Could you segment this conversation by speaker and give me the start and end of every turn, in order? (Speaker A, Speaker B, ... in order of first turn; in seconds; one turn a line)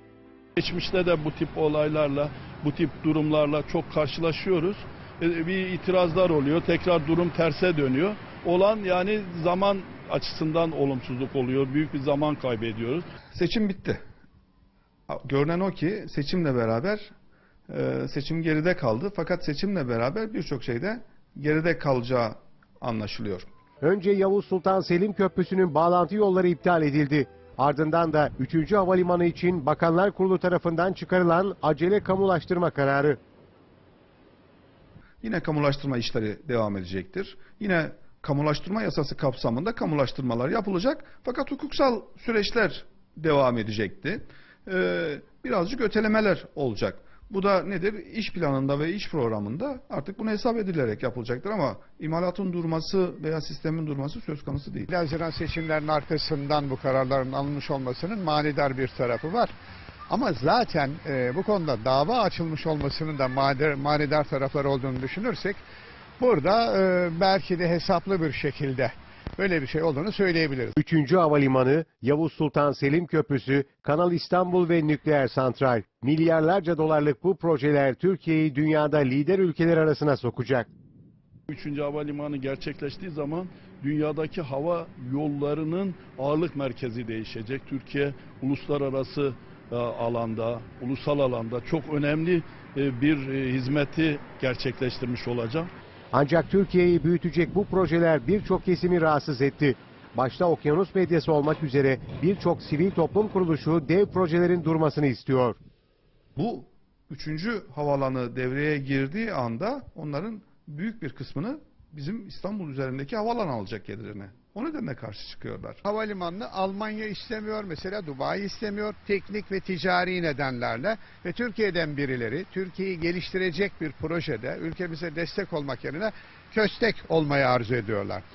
Speaker A: 0.6-13.1
Speaker B: 13.3-14.0
Speaker B: 15.1-17.1
Speaker B: 17.7-23.5
Speaker C: 23.8-33.2
Speaker B: 35.2-54.9
Speaker D: 54.9-59.5
Speaker D: 60.1-65.6
Speaker D: 66.2-70.8
Speaker C: 70.8-80.7
Speaker A: 81.5-95.7
Speaker C: 96.1-105.6
Speaker B: 106.4-115.8
Speaker D: 115.8-128.2